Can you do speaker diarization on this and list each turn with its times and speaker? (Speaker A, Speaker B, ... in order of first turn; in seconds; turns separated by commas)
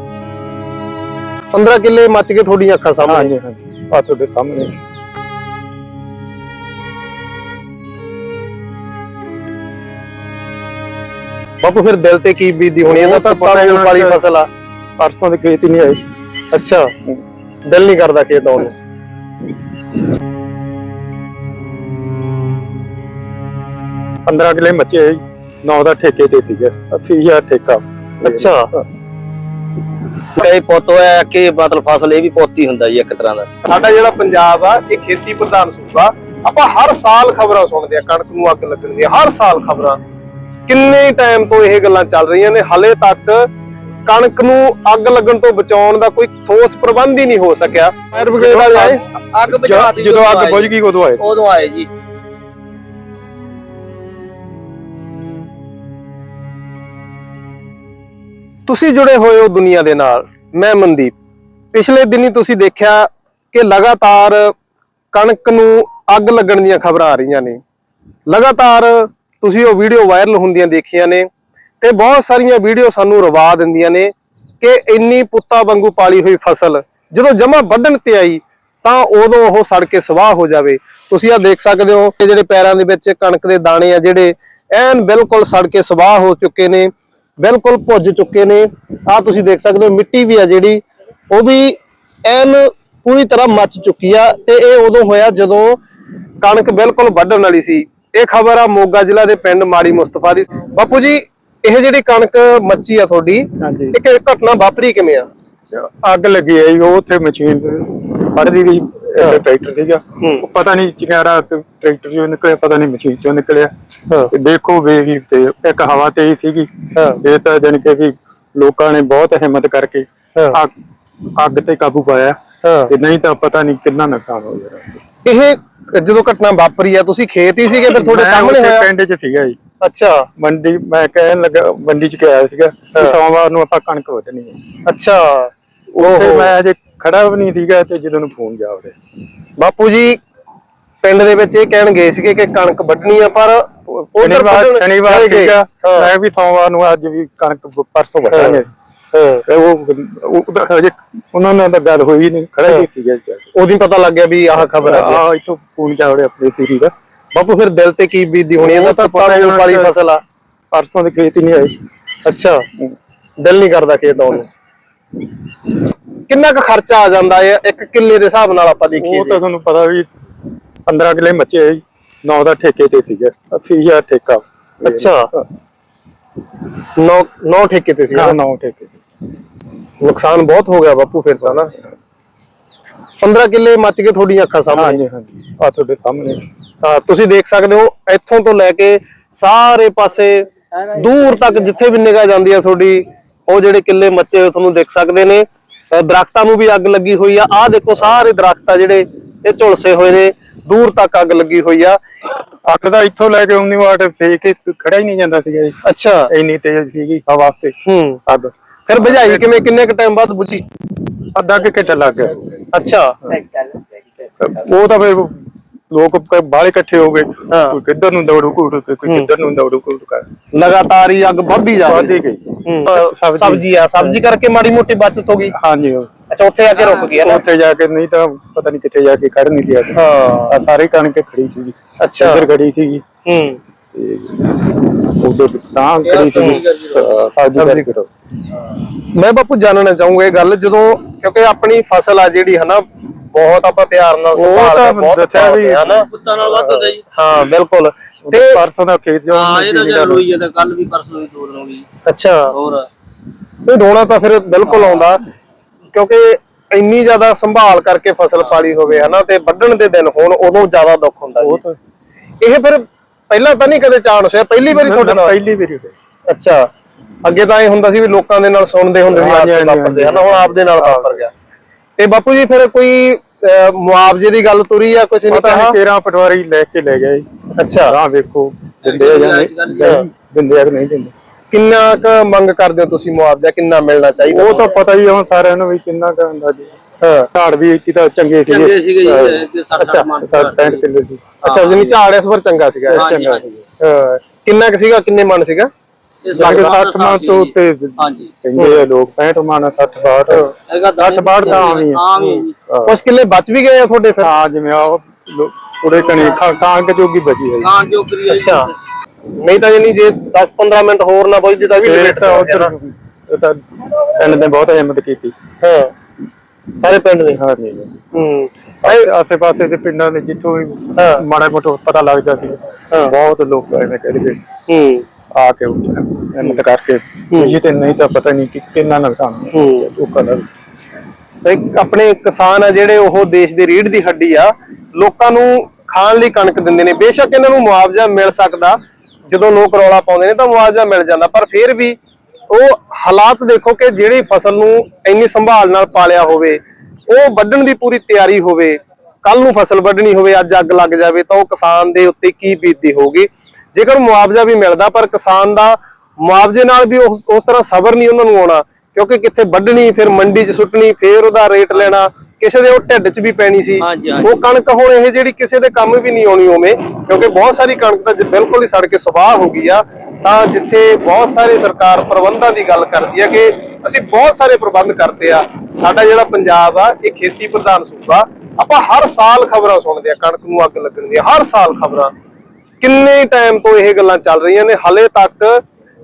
Speaker A: 1.5-3.3, Speaker B: 3.0-4.8, Speaker A: 11.6-14.5, Speaker B: 12.8-14.2, Speaker B: 15.0-16.0, Speaker A: 16.5-16.9, Speaker A: 17.7-18.7, Speaker B: 24.2-28.8, Speaker A: 28.2-28.7, Speaker C: 30.4-33.5, Speaker A: 33.6-40.0, Speaker A: 40.7-43.5, Speaker A: 44.0-49.0, Speaker B: 48.4-48.8, Speaker C: 48.5-51.9, Speaker B: 49.5-51.2, Speaker A: 58.7-61.1, Speaker A: 61.7-64.5, Speaker A: 65.1-67.6, Speaker A: 68.3-71.3, Speaker A: 71.8-95.8, Speaker A: 96.4-105.3, Speaker B: 103.6-104.0, Speaker B: 105.7-113.7, Speaker A: 110.2-110.5, Speaker B: 114.3-120.7, Speaker A: 116.9-117.2, Speaker B: 121.3-122.4, Speaker A: 122.6-122.9, Speaker B: 122.9-124.9, Speaker A: 125.2-128.9, Speaker B: 127.9-129.6, Speaker A: 129.8-130.3, Speaker B: 130.4-134.6, Speaker A: 134.8-136.5, Speaker B: 135.9-138.9, Speaker A: 139.6-140.2, Speaker A: 141.0-146.1, Speaker B: 144.2-148.7, Speaker A: 148.3-148.6, Speaker A: 149.1-149.4, Speaker B: 149.4-153.4, Speaker A: 153.5-155.2, Speaker B: 154.8-156.9, Speaker A: 157.3-160.2, Speaker B: 158.6-159.9, Speaker B: 160.7-161.8, Speaker A: 162.2-162.6, Speaker A: 163.4-164.5, Speaker A: 166.3-169.4, Speaker B: 169.0-170.1, Speaker B: 170.9-175.4, Speaker A: 174.8-175.3, Speaker A: 177.0-178.4, Speaker B: 178.1-178.9, Speaker A: 180.0-181.7, Speaker A: 183.2-185.0, Speaker B: 184.7-186.4, Speaker A: 186.8-202.0, Speaker B: 202.7-209.4, Speaker A: 205.8-206.3, Speaker A: 207.8-208.2, Speaker A: 208.9-210.6, Speaker B: 211.3-212.6, Speaker A: 212.7-213.2, Speaker B: 214.4-215.4, Speaker B: 215.9-220.3, Speaker A: 217.5-217.8, Speaker A: 220.5-222.1, Speaker B: 221.8-224.2, Speaker A: 222.6-225.5, Speaker B: 225.5-226.1, Speaker A: 226.3-227.4, Speaker B: 227.1-233.0, Speaker A: 229.9-230.6, Speaker A: 232.0-232.4, Speaker A: 233.2-233.6, Speaker B: 233.9-238.1, Speaker C: 236.0-237.1, Speaker A: 237.5-237.9, Speaker A: 238.9-246.1, Speaker B: 244.3-246.1, Speaker C: 246.1-247.0, Speaker A: 247.1-248.6, Speaker B: 248.3-250.3, Speaker C: 249.3-251.8, Speaker A: 252.0-252.5, Speaker C: 252.5-252.9, Speaker A: 253.6-255.2, Speaker A: 255.9-261.6, Speaker B: 261.4-261.8, Speaker A: 262.4-265.3, Speaker B: 264.7-265.9, Speaker A: 266.3-266.7, Speaker A: 267.2-271.3, Speaker B: 269.1-271.2, Speaker A: 272.0-275.8, Speaker B: 275.3-277.2, Speaker A: 277.6-277.9, Speaker B: 277.8-281.1, Speaker C: 278.8-279.9, Speaker A: 281.5-284.7, Speaker B: 284.3-286.7, Speaker A: 287.0-287.3, Speaker B: 287.3-289.4, Speaker C: 288.5-290.8, Speaker A: 289.8-290.1, Speaker B: 290.2-291.2, Speaker A: 291.4-293.1, Speaker C: 291.4-292.0, Speaker B: 292.9-293.6, Speaker C: 292.9-293.5, Speaker A: 293.8-295.7, Speaker C: 296.2-298.3, Speaker A: 296.4-296.7, Speaker B: 296.4-302.1, Speaker A: 298.6-298.8, Speaker C: 300.7-302.5, Speaker B: 302.7-302.9, Speaker A: 302.8-304.3, Speaker B: 304.2-307.7, Speaker C: 307.6-308.7, Speaker A: 308.3-308.7, Speaker A: 309.4-312.7, Speaker B: 311.8-315.3, Speaker A: 315.6-315.9, Speaker A: 316.8-317.4, Speaker B: 317.3-318.0, Speaker A: 318.1-319.1, Speaker B: 318.8-324.4, Speaker A: 320.9-321.2, Speaker A: 324.7-325.0, Speaker B: 325.3-330.5, Speaker A: 327.3-327.6, Speaker A: 329.5-329.9, Speaker A: 331.4-342.0, Speaker A: 342.5-382.1, Speaker C: 363.8-364.4, Speaker A: 382.8-385.6